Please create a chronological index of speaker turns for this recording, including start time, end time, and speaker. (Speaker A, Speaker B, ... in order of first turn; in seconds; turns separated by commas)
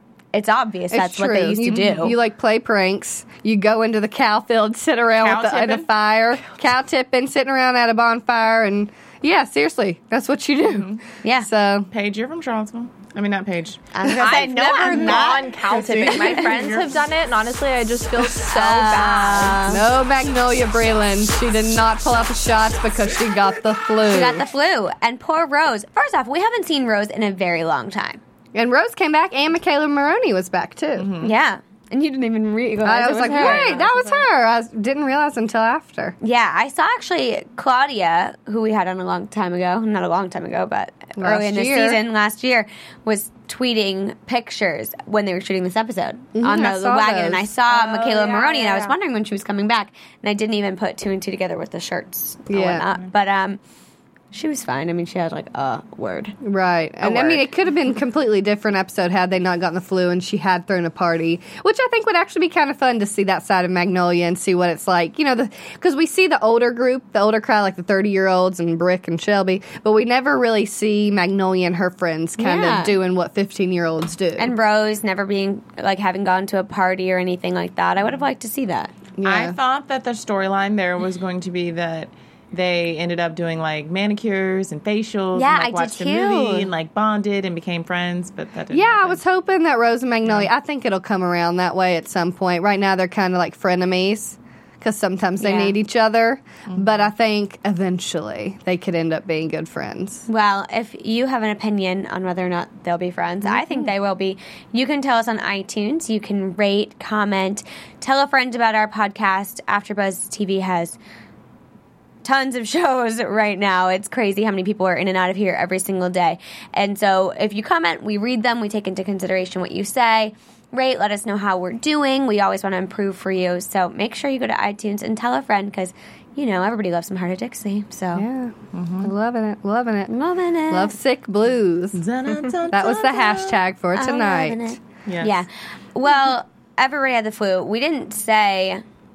Speaker A: 0.3-2.2, Speaker B: 0.9-10.9, Speaker C: 5.2-5.9, Speaker C: 10.6-11.0, Speaker A: 11.2-11.5, Speaker B: 11.4-11.9, Speaker C: 11.9-17.0, Speaker A: 13.9-15.5, Speaker D: 14.2-19.8, Speaker A: 18.4-19.8, Speaker B: 19.7-24.4, Speaker A: 24.1-28.2, Speaker B: 28.5-31.1, Speaker C: 30.9-31.3, Speaker A: 31.2-33.9, Speaker B: 32.8-36.1, Speaker D: 33.3-34.2, Speaker A: 36.2-53.6, Speaker B: 41.2-42.0, Speaker B: 46.3-47.5, Speaker D: 47.7-48.9, Speaker B: 52.5-52.9, Speaker A: 54.3-56.4, Speaker B: 56.4-74.5, Speaker A: 57.0-57.5, Speaker A: 72.4-73.0, Speaker A: 74.4-78.9, Speaker B: 79.2-79.5, Speaker C: 79.2-89.2, Speaker A: 85.3-86.7, Speaker B: 88.7-100.2, Speaker A: 95.4-95.8, Speaker C: 96.7-97.1, Speaker A: 100.3-111.0, Speaker B: 103.5-103.8, Speaker A: 112.2-128.2, Speaker B: 128.1-130.1, Speaker C: 128.7-129.1, Speaker A: 130.1-130.9, Speaker B: 130.7-132.0, Speaker C: 131.9-133.6, Speaker B: 132.7-134.8, Speaker A: 133.9-138.8, Speaker C: 135.1-135.3